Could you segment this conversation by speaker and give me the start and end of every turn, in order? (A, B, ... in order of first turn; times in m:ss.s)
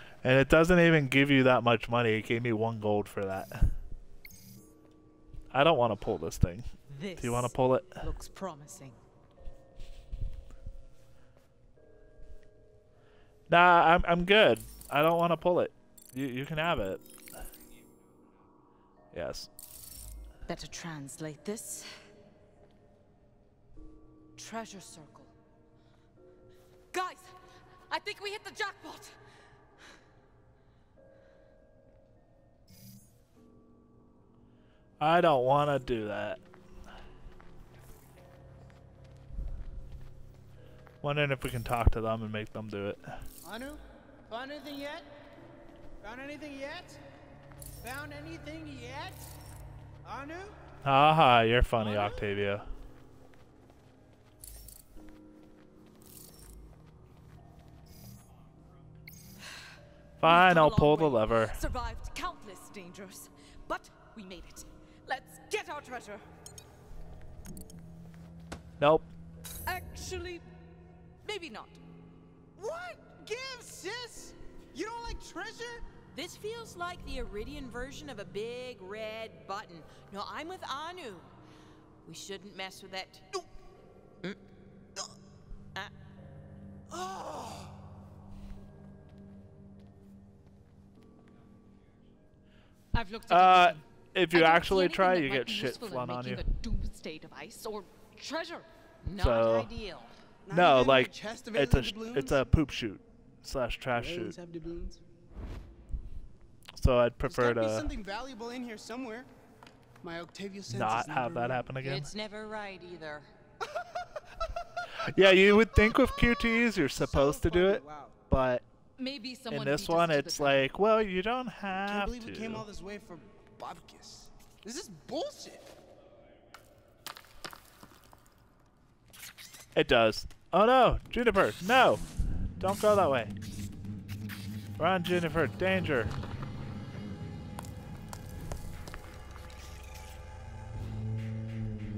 0:00.2-0:03.8 A
0:05.5-0:08.0 A
0:06.9-0:09.0 B
0:13.5-0:17.0 A
0:19.1-0:19.5 A
0:20.5-0:21.9 B
0:24.4-0:25.3 B
0:26.9-0:27.3 B
0:27.9-0:29.2 B
0:35.0-0:36.4 A
0:41.0-0:43.2 A
0:43.4-0:45.1 C
0:46.0-0:47.0 C
0:47.8-0:49.2 C
0:50.0-0:50.6 C
0:50.8-0:52.7 A
0:51.8-0:52.2 C
1:00.2-1:01.6 A
1:00.2-1:06.2 B
1:08.8-1:09.1 A
1:09.6-1:10.4 B
1:11.2-1:11.8 B
1:12.6-1:15.8 C
1:16.1-1:21.3 D
1:22.0-1:23.3 D
1:26.9-1:27.7 C
1:32.9-1:38.7 B
1:33.3-1:36.4 A
1:39.0-1:40.2 D
1:39.2-1:39.7 A
1:40.4-1:42.4 C
1:40.5-1:44.4 A
1:43.9-1:45.0 C
1:46.8-1:47.9 A
1:47.2-1:49.3 C
1:50.0-1:51.6 C
1:50.7-1:52.1 A
1:51.8-1:53.3 D
1:53.6-1:54.1 C
1:54.9-1:58.6 A
1:55.2-1:58.1 C
1:59.0-2:00.7 B
1:59.5-2:02.6 A
2:01.8-2:05.7 C
2:09.7-2:13.3 A
2:14.8-2:16.2 A